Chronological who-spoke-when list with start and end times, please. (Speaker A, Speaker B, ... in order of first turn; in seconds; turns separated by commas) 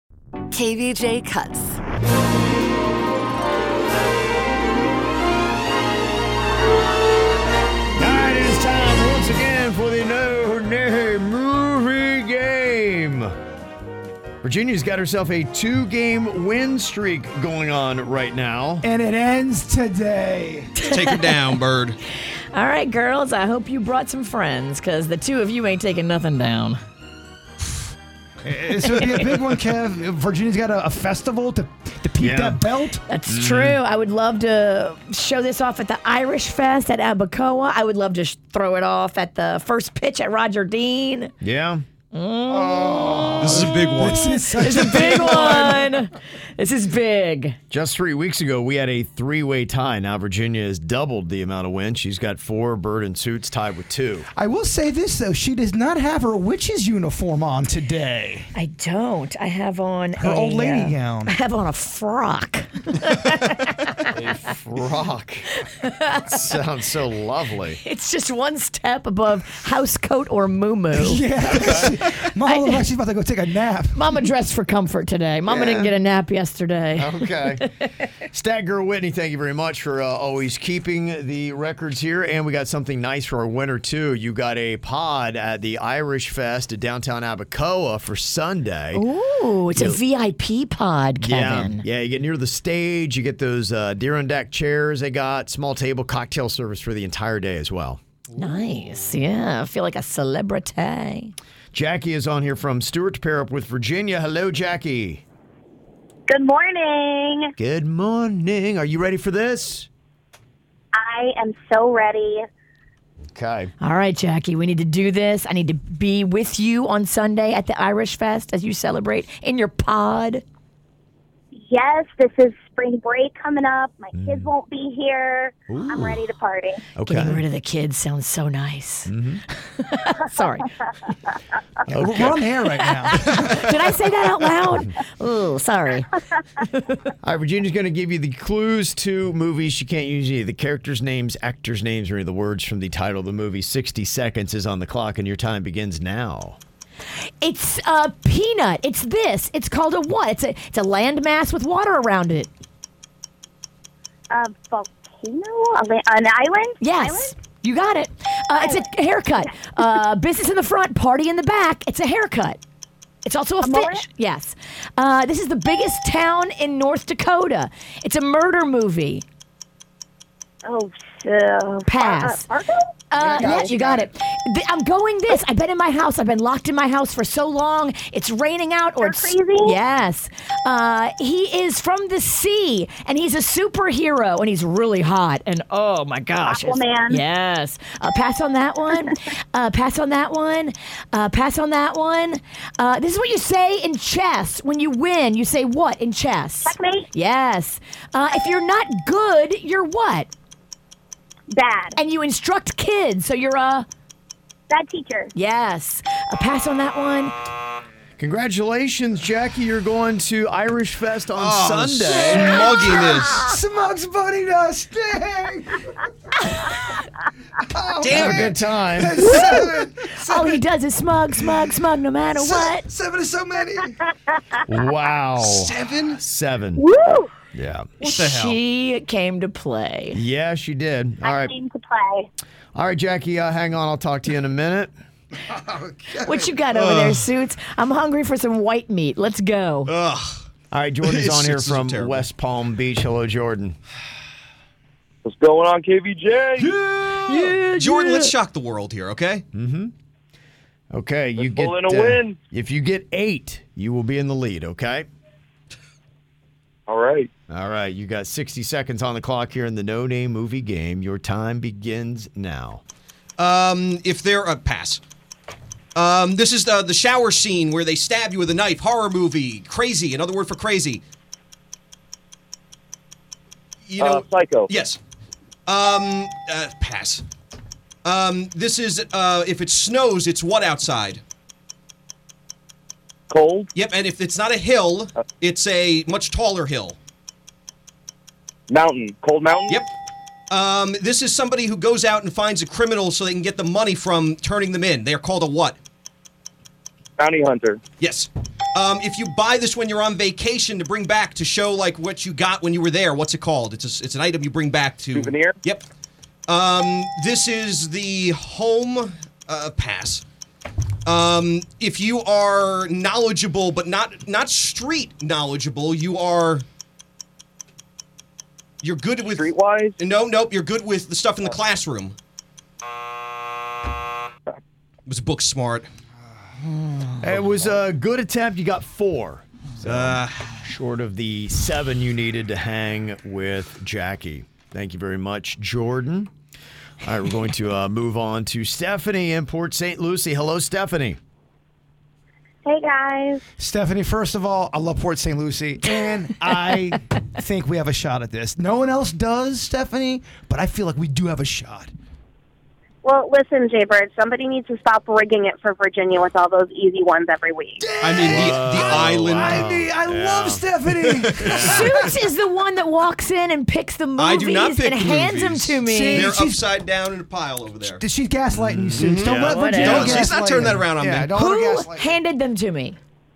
Speaker A: 0.5-1.8, Speaker B: 8.0-13.3, Speaker B: 14.4-18.9, Speaker C: 18.8-20.7, Speaker A: 20.8-21.2, Speaker D: 20.8-22.0, Speaker A: 22.5-26.8, Speaker C: 28.4-33.0, Speaker B: 32.2-32.6, Speaker A: 33.1-41.3, Speaker B: 33.3-33.8, Speaker B: 41.4-41.8, Speaker A: 42.1-47.6, Speaker C: 42.7-45.9, Speaker D: 43.4-44.7, Speaker B: 47.7-54.3, Speaker C: 54.3-58.5, Speaker A: 58.5-64.1, Speaker C: 60.2-61.3, Speaker B: 64.1-65.5, Speaker A: 65.8-66.2, Speaker B: 66.2-67.8, Speaker A: 67.8-71.9, Speaker C: 70.9-74.1, Speaker B: 71.5-71.9, Speaker A: 72.5-72.8, Speaker A: 73.9-77.7, Speaker B: 75.5-75.9, Speaker B: 77.0-77.7, Speaker B: 78.2-89.0, Speaker A: 88.9-91.8, Speaker B: 89.7-90.0, Speaker B: 91.2-98.0, Speaker A: 98.3-101.3, Speaker B: 101.7-105.2, Speaker E: 106.3-107.5, Speaker B: 107.6-109.9, Speaker E: 111.0-112.4, Speaker B: 113.3-113.7, Speaker A: 113.8-120.4, Speaker E: 121.6-126.8, Speaker B: 124.2-124.5, Speaker B: 125.7-126.2, Speaker B: 127.0-127.4, Speaker A: 127.1-129.1, Speaker B: 129.1-129.4, Speaker A: 129.8-130.7, Speaker C: 131.9-133.7, Speaker B: 131.9-132.4, Speaker A: 132.8-136.7, Speaker B: 137.2-146.6, Speaker A: 147.4-152.5, Speaker E: 154.3-157.3, Speaker A: 156.8-162.6, Speaker E: 158.6-158.8, Speaker A: 163.2-169.2, Speaker E: 163.6-164.1, Speaker E: 170.7-173.7, Speaker A: 171.9-172.5, Speaker A: 173.1-200.3, Speaker C: 173.2-174.1, Speaker E: 179.0-179.8, Speaker E: 186.4-187.2, Speaker E: 196.7-197.1, Speaker E: 201.5-202.0, Speaker A: 202.0-203.9, Speaker E: 204.7-205.3, Speaker A: 205.3-207.3, Speaker B: 208.2-212.7, Speaker D: 211.4-213.5, Speaker C: 212.3-215.8, Speaker C: 217.7-220.6, Speaker D: 218.0-218.5, Speaker B: 218.1-219.4, Speaker A: 219.3-219.7, Speaker A: 220.2-222.9, Speaker C: 222.3-224.1, Speaker B: 224.7-226.8, Speaker C: 225.4-226.2, Speaker E: 226.8-227.3, Speaker B: 227.5-227.9, Speaker D: 228.0-228.6, Speaker A: 228.0-230.2, Speaker B: 230.1-231.5, Speaker E: 231.2-232.3, Speaker B: 232.8-234.9, Speaker C: 235.5-236.5, Speaker A: 236.2-239.9, Speaker D: 236.7-237.2, Speaker D: 239.8-240.5, Speaker B: 240.7-243.8, Speaker D: 241.0-242.3, Speaker F: 245.2-246.7, Speaker D: 246.6-249.4, Speaker A: 247.1-248.3, Speaker B: 249.5-249.9, Speaker B: 250.9-255.1, Speaker F: 251.4-252.3, Speaker F: 256.9-257.3, Speaker B: 257.5-262.8, Speaker D: 263.4-265.0, Speaker D: 265.9-271.0, Speaker D: 273.9-275.0, Speaker F: 274.0-274.7, Speaker D: 275.7-277.2, Speaker D: 278.0-281.2, Speaker F: 283.3-283.7, Speaker D: 283.8-286.9, Speaker F: 288.7-289.8, Speaker D: 290.5-295.8, Speaker F: 297.2-297.8, Speaker D: 298.0-305.8, Speaker F: 305.1-305.6, Speaker D: 306.5-310.2, Speaker D: 311.1-316.6, Speaker D: 318.8-322.1, Speaker F: 319.3-319.9, Speaker D: 325.1-325.9, Speaker B: 327.2-336.3, Speaker D: 329.8-330.5, Speaker B: 337.0-341.2, Speaker E: 342.6-343.4, Speaker C: 343.6-351.9, Speaker E: 353.0-357.8, Speaker C: 357.8-362.1, Speaker D: 358.0-359.7, Speaker B: 358.2-360.7, Speaker B: 361.3-362.1, Speaker A: 361.5-366.3, Speaker D: 364.2-368.0, Speaker C: 365.8-366.7, Speaker C: 367.8-372.1, Speaker B: 368.5-369.9, Speaker D: 369.0-371.3, Speaker A: 369.4-370.3, Speaker A: 371.3-373.0